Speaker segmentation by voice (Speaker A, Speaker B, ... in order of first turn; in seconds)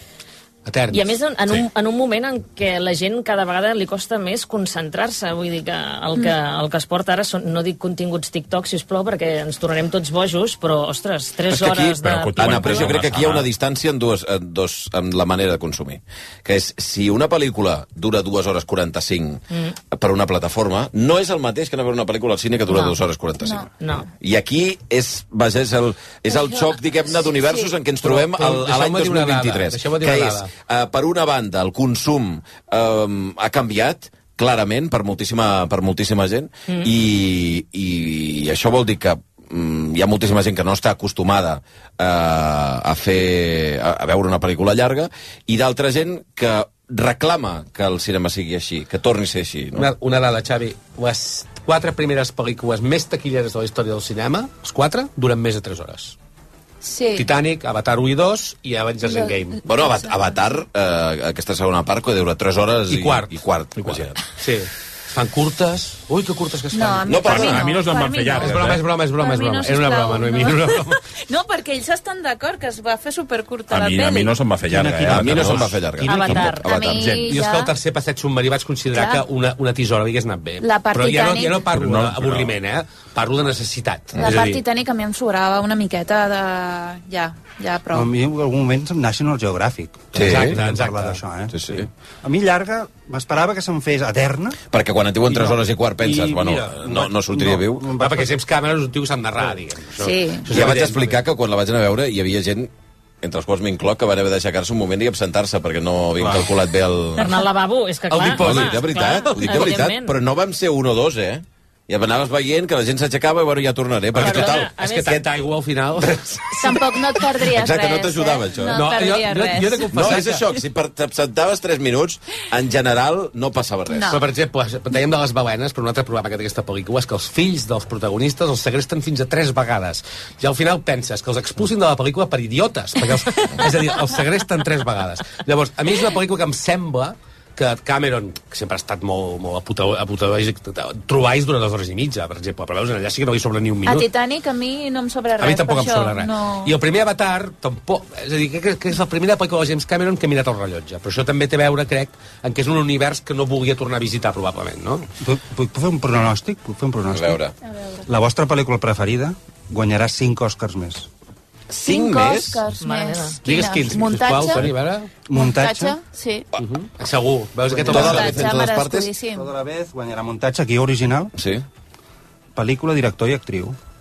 Speaker A: 0.7-1.1, 28.0-30.5, 49.7-56.2, 57.2-59.6, 62.9-63.4, 64.4-67.6, 68.4-71.0, 77.0-84.6, 90.1-91.2, 98.0-101.2, 108.1-108.8, 114.1-116.8, 118.7-120.4, 124.1-144.1, 145.4-155.1, 163.4-165.1, 166.7-168.5
Speaker B: 0.9-12.9, 22.7-23.0, 23.8-24.1, 76.0-76.7, 107.2-110.1, 114.2-115.2, 162.8-163.4
Speaker C: 11.5-23.7, 24.2-49.9, 59.7-64.2, 67.1-67.6, 75.1-77.3, 90.1-90.6, 91.5-91.9, 94.7-97.9, 100.5-102.7, 103.2-107.4, 108.2-114.7, 117.3-119.1, 119.9-124.2, 157.1-157.5, 161.7-162.7, 167.9-169.1, 171.3-171.7
Speaker D: 12.0-13.5, 67.1-68.8, 73.7-75.9, 81.6-82.6
Speaker E: 26.3-27.7, 56.8-57.3, 59.0-60.3, 66.7-74.4, 76.5-77.7, 78.9-79.2, 80.6-81.7, 84.2-88.1, 100.0-100.6, 116.6-120.2, 123.9-124.2, 143.8-146.8, 157.7-158.1, 161.7-164.7, 165.3-166.5, 167.9-169.5
Speaker F: 74.7-76.5, 87.9-94.6, 95.3-98.3, 155.2-157.4, 158.1-161.1, 165.3-166.0, 167.7-168.4, 169.3-171.3, 172.6-173.8